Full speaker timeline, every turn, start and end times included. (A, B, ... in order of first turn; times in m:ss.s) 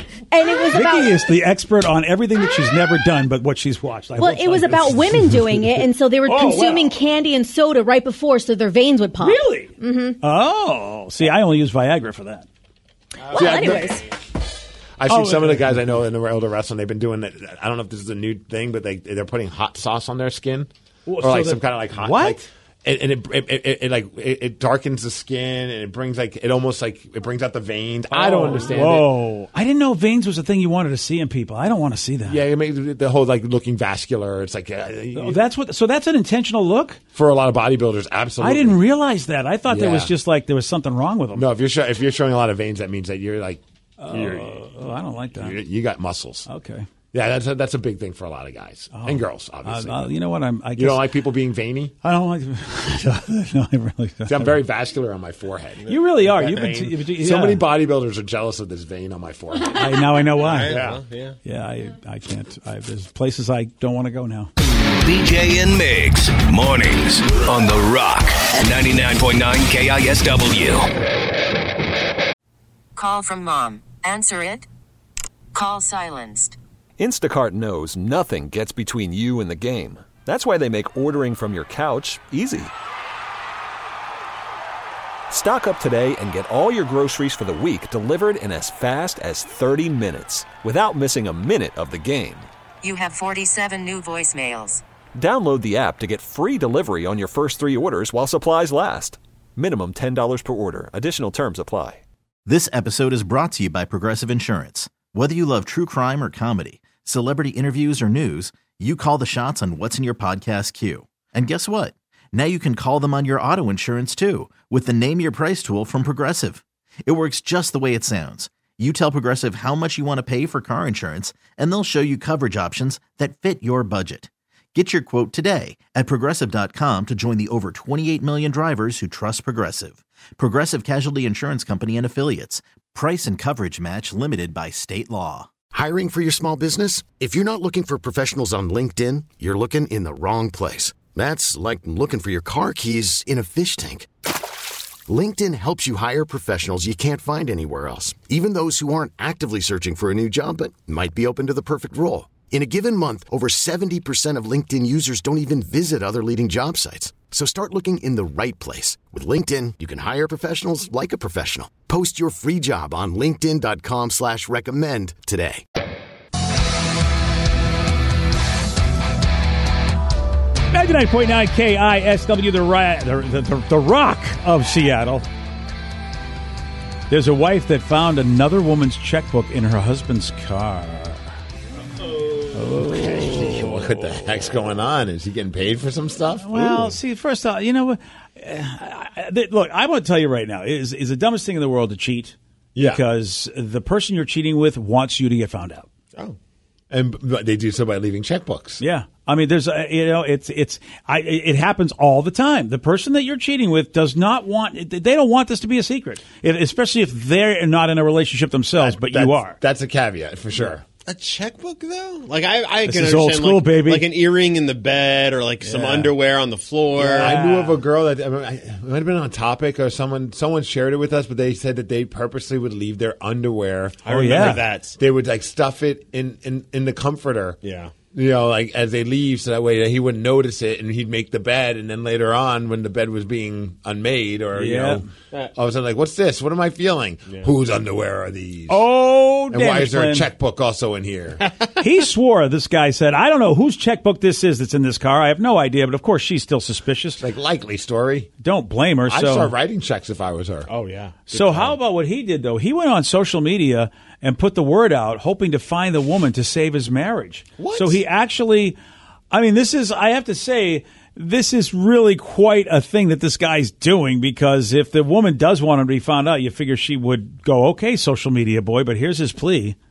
0:00.3-0:01.2 A
0:00.7-0:06.9 B
0:04.2-0:10.2 A
0:09.2-0:12.5 B
0:13.3-0:14.0 A
0:13.3-0:14.1 C
0:13.3-0:14.0 B
0:15.0-0:20.7 C
0:15.1-0:15.8 B
0:21.1-0:22.4 B
0:21.2-0:29.1 C
0:28.1-0:32.4 B
0:32.3-0:35.4 C
0:35.1-0:37.0 B
0:37.1-0:38.8 C
0:38.4-0:41.4 B
0:39.7-0:40.1 C
0:41.3-0:44.6 C
0:44.0-0:45.6 B
0:45.4-0:46.5 C
0:46.5-0:46.9 B
0:47.1-0:50.1 C
0:48.9-0:51.0 B
0:50.8-0:51.9 C
0:52.0-0:54.6 B
0:54.3-0:59.8 C
0:55.9-0:57.6 B
0:56.3-0:56.6 D
0:59.7-1:00.8 B
1:00.4-1:01.4 D
1:00.7-1:01.0 C
1:01.4-1:04.5 B
1:05.0-1:10.9 E
1:13.0-1:14.7 F
1:15.5-1:16.6 F
1:17.0-1:22.7 G
1:25.3-1:32.5 G
1:32.8-1:34.8 F
1:35.1-1:42.0 G
1:42.4-2:15.5 H
2:15.7-2:24.1 I
2:25.1-2:45.6 I
2:50.7-2:55.3 B
2:57.1-3:01.3 B
3:02.5-3:03.8 B
3:02.7-3:07.0 C
3:06.4-3:12.4 B
3:12.8-3:13.0 C
3:12.9-3:15.9 B
3:16.9-3:18.8 C
3:18.8-3:29.6 B
3:28.8-3:30.8 C
3:30.6-3:37.7 D
3:32.9-3:34.0 B
3:35.6-3:36.1 B
3:37.0-3:37.7 B
3:37.0-3:47.6 C
3:44.0-3:44.6 B
3:44.2-3:45.0 D
3:47.6-3:47.9 D
3:48.1-3:58.9 C
3:54.5-3:55.0 B
3:58.7-4:00.3 B
3:59.5-4:01.4 C
4:01.8-4:07.2 B
4:07.2-4:08.3 C
4:08.4-4:09.5 B
4:09.1-4:10.7 C
4:10.7-4:11.7 D
4:11.3-4:18.8 B
4:17.6-4:18.0 D
4:19.3-4:29.8 B